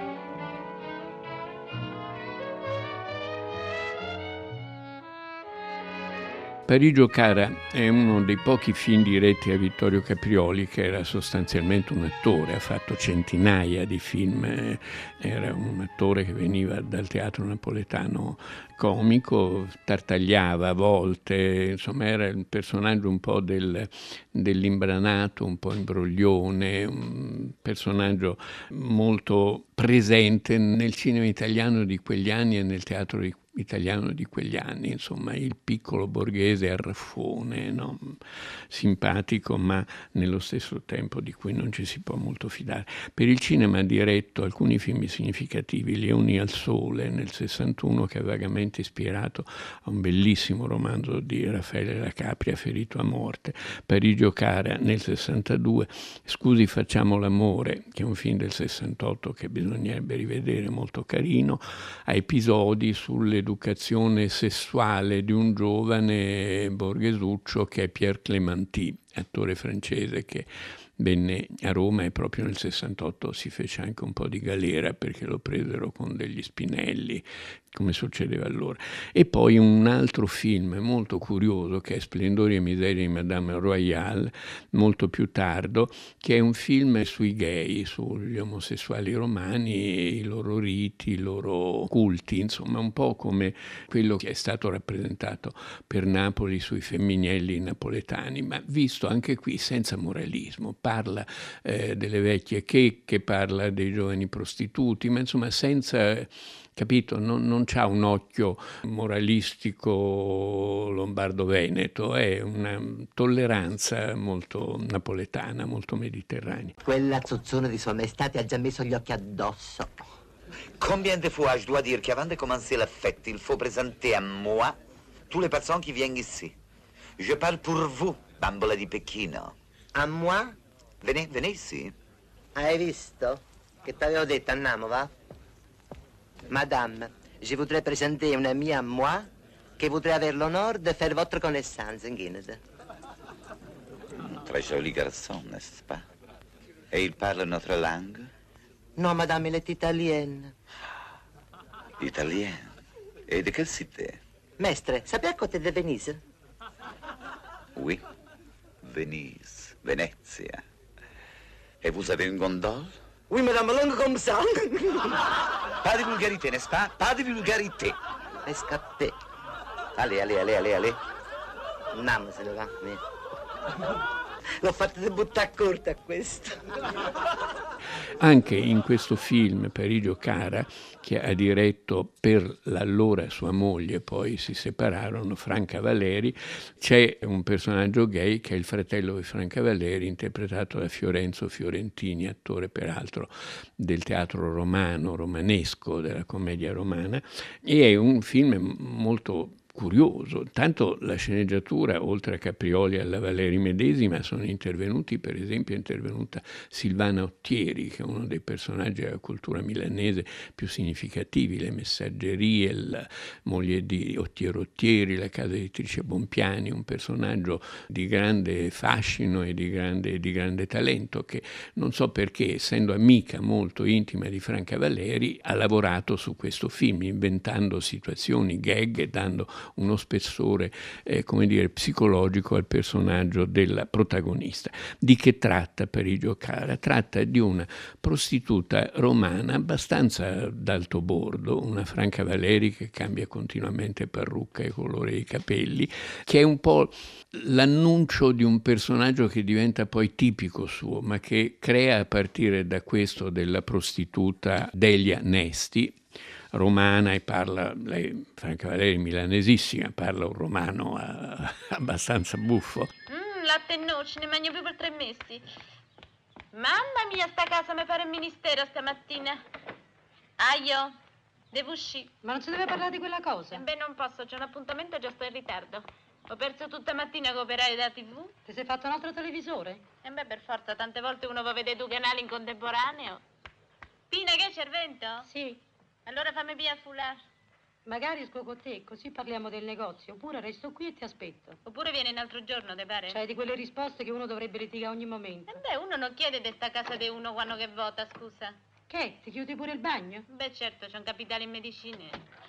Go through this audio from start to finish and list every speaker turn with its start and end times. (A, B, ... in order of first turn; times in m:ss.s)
0:06.7-0:38.2 A
0:38.7-1:10.5 A
1:11.0-1:56.8 A
1:56.8-2:00.1 B
2:00.8-2:04.8 C
2:05.3-2:06.6 C
2:07.2-2:09.5 C
2:09.9-2:10.6 B
2:11.0-2:11.9 C
2:12.6-2:15.1 B
2:16.5-2:19.3 B
2:19.8-2:22.6 B
2:24.2-2:26.0 C
2:26.9-2:28.3 C
2:29.0-2:30.5 B
2:32.0-2:32.7 C
2:33.3-2:34.2 C
2:34.6-2:36.2 B
2:37.8-2:38.0 C
2:38.8-2:40.6 C
2:41.8-2:43.0 C
2:43.3-2:45.2 B
2:45.8-2:48.0 C
2:48.4-2:49.1 B
2:50.0-2:51.0 B
2:51.9-2:53.0 B
2:54.6-2:56.6 B
2:58.2-4:16.0 A
4:16.5-4:22.9 A
4:23.1-4:25.4 D
4:26.5-4:29.4 D
4:30.4-4:30.9 D
4:31.5-4:32.1 D
4:32.2-4:33.6 E
4:33.5-4:38.3 D
4:38.4-4:39.8 E
4:40.0-4:43.2 D
4:44.1-4:45.3 D
4:45.2-4:45.6 E
4:46.0-4:47.2 D
4:47.8-4:51.6 E
4:51.6-4:53.2 D
4:53.1-4:55.6 E
4:55.5-4:58.6 D
4:58.9-5:00.2 E
5:00.3-5:02.2 D